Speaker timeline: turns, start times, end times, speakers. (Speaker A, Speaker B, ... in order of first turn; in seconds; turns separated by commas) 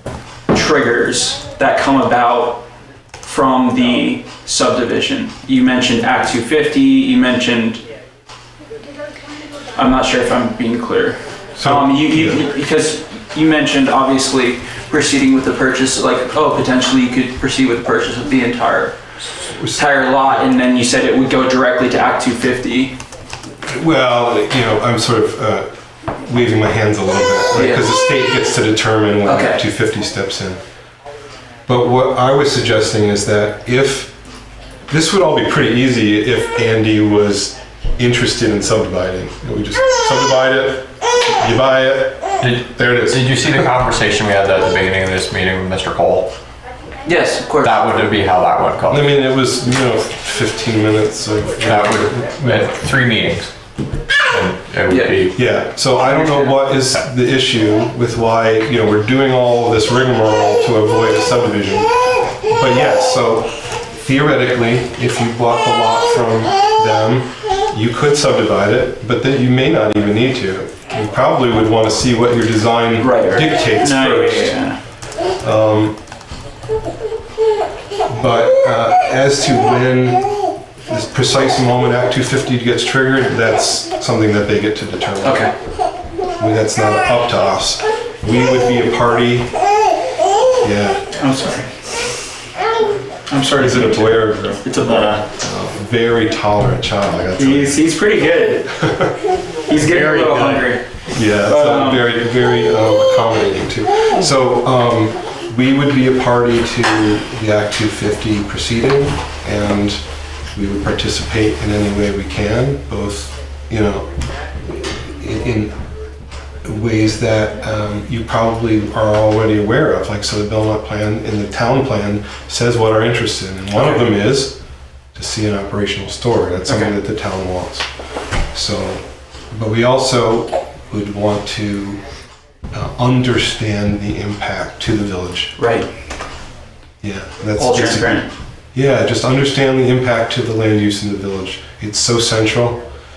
Speaker A: 0.5-2.6, Speaker A: 3.2-7.8, Speaker A: 9.8-19.0, Speaker B: 11.6-12.4, Speaker B: 19.6-20.4, Speaker A: 19.8-23.0, Speaker B: 23.7-30.6, Speaker A: 27.5-27.9, Speaker A: 29.2-29.6, Speaker B: 31.7-34.1, Speaker B: 34.9-43.7, Speaker C: 42.4-46.4, Speaker A: 47.1-47.8, Speaker C: 47.6-49.1, Speaker B: 48.9-52.3, Speaker C: 51.6-53.6, Speaker C: 54.3-55.4, Speaker A: 54.9-55.2, Speaker B: 55.4-74.6, Speaker A: 56.0-56.6, Speaker A: 73.0-74.8, Speaker B: 75.4-76.0, Speaker B: 78.1-85.5, Speaker A: 85.2-85.5, Speaker B: 86.4-89.5, Speaker B: 90.6-91.0, Speaker A: 91.2-91.7, Speaker A: 93.3-95.2, Speaker B: 93.6-97.8, Speaker C: 94.8-95.2, Speaker A: 97.4-98.7, Speaker B: 98.8-99.1, Speaker A: 99.7-100.8, Speaker C: 100.3-100.6, Speaker B: 101.1-110.0, Speaker A: 101.4-102.1, Speaker B: 110.5-114.1, Speaker B: 114.7-115.8, Speaker B: 116.6-124.6, Speaker A: 123.8-124.0, Speaker B: 125.2-127.9, Speaker A: 126.7-126.9, Speaker B: 128.5-132.0, Speaker B: 132.7-135.6, Speaker A: 135.6-135.9, Speaker B: 137.0-138.2, Speaker A: 137.6-138.3, Speaker B: 138.7-142.8